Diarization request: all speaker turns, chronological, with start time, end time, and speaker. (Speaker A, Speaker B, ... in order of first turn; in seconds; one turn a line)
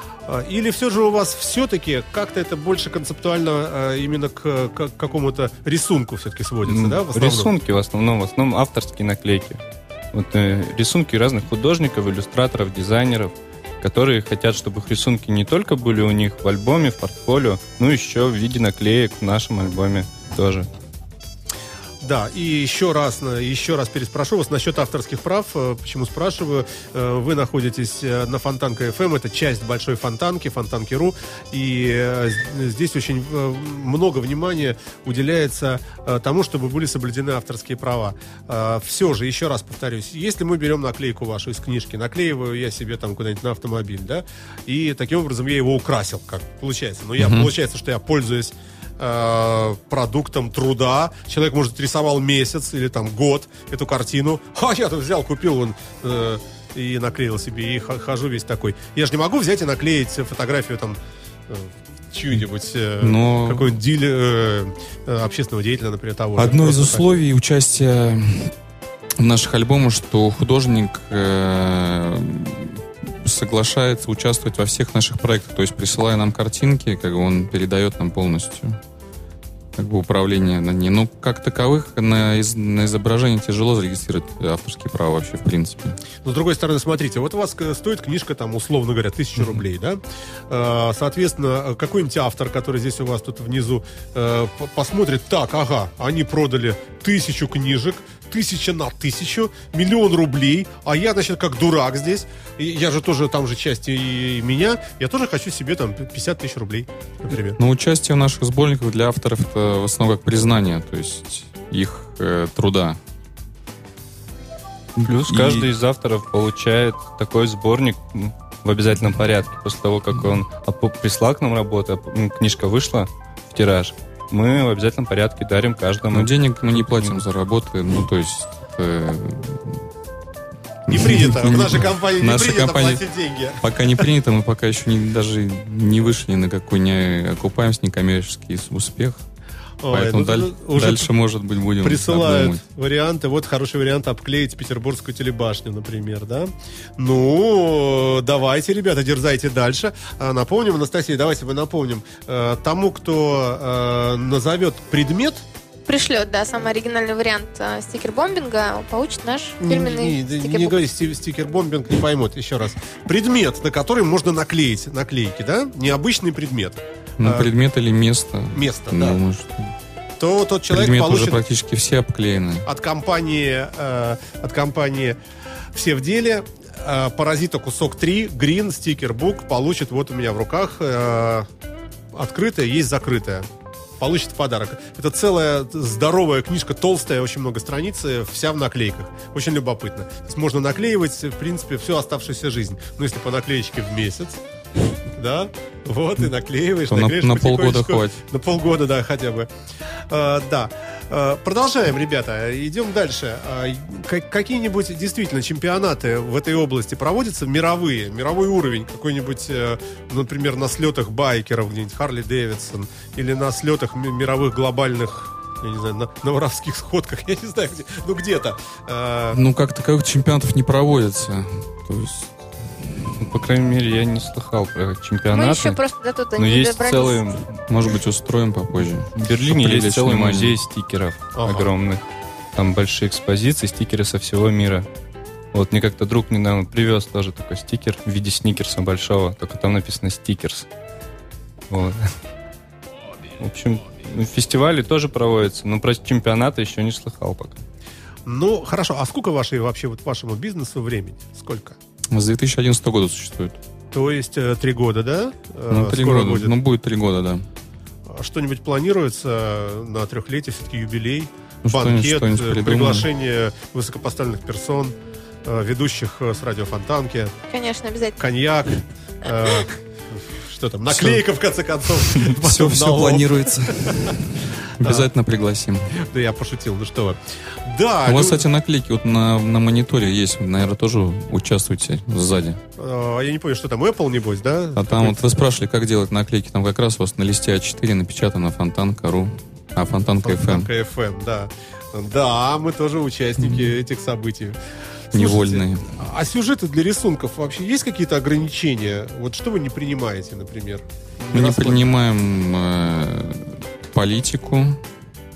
Speaker A: 0.3-7.5
Speaker B: 6.7-9.6
Speaker B: 10.1-20.7
Speaker A: 22.0-67.0
Speaker C: 47.2-47.5
Speaker C: 63.0-63.7
Speaker C: 66.4-68.5
Speaker C: 69.2-78.8
Speaker C: 79.8-86.0
Speaker A: 86.2-107.6
Speaker C: 107.6-113.0
Speaker C: 115.0-115.7
Speaker B: 115.0-127.2
Speaker C: 126.1-129.8
Speaker C: 130.9-133.0
Speaker A: 130.9-134.0
Speaker C: 133.6-139.2
Speaker A: 139.8-141.1
Speaker C: 139.9-142.6
Speaker A: 141.8-155.4
Speaker D: 155.9-160.8
Speaker A: 159.6-167.5
Speaker C: 167.2-169.7
Speaker A: 168.5-169.2
Speaker A: 170.2-171.4
Speaker C: 170.7-172.7
Speaker A: 172.7-175.2
Speaker A: 175.7-181.5
Speaker A: 182.1-183.5
Speaker A: 184.0-194.4
Speaker A: 195.1-199.5
Speaker C: 196.9-198.2
Speaker A: 200.1-219.4
Speaker C: 219.3-222.9
Speaker B: 223.2-225.8
Speaker D: 225.3-227.2
Speaker B: 226.4-227.5
Speaker C: 227.7-230.6
Speaker B: 229.2-232.0
Speaker A: 231.4-231.7
Speaker B: 232.6-234.9
Speaker B: 235.5-240.7
Speaker B: 241.7-242.1
Speaker B: 243.4-247.6
Speaker A: 248.3-251.8
Speaker C: 252.1-253.6
Speaker A: 253.9-256.5
Speaker C: 255.7-257.4
Speaker A: 258.1-267.4
Speaker C: 261.6-263.1
Speaker D: 267.5-268.3
Speaker A: 268.2-274.1
Speaker C: 270.9-271.2
Speaker C: 272.0-275.9
Speaker A: 274.8-275.1
Speaker A: 275.9-278.4
Speaker C: 278.1-282.6
Speaker A: 282.8-285.2
Speaker C: 284.8-290.7
Speaker A: 290.2-294.6
Speaker C: 293.4-293.7
Speaker A: 295.1-301.9
Speaker C: 295.1-295.9
Speaker C: 301.3-304.8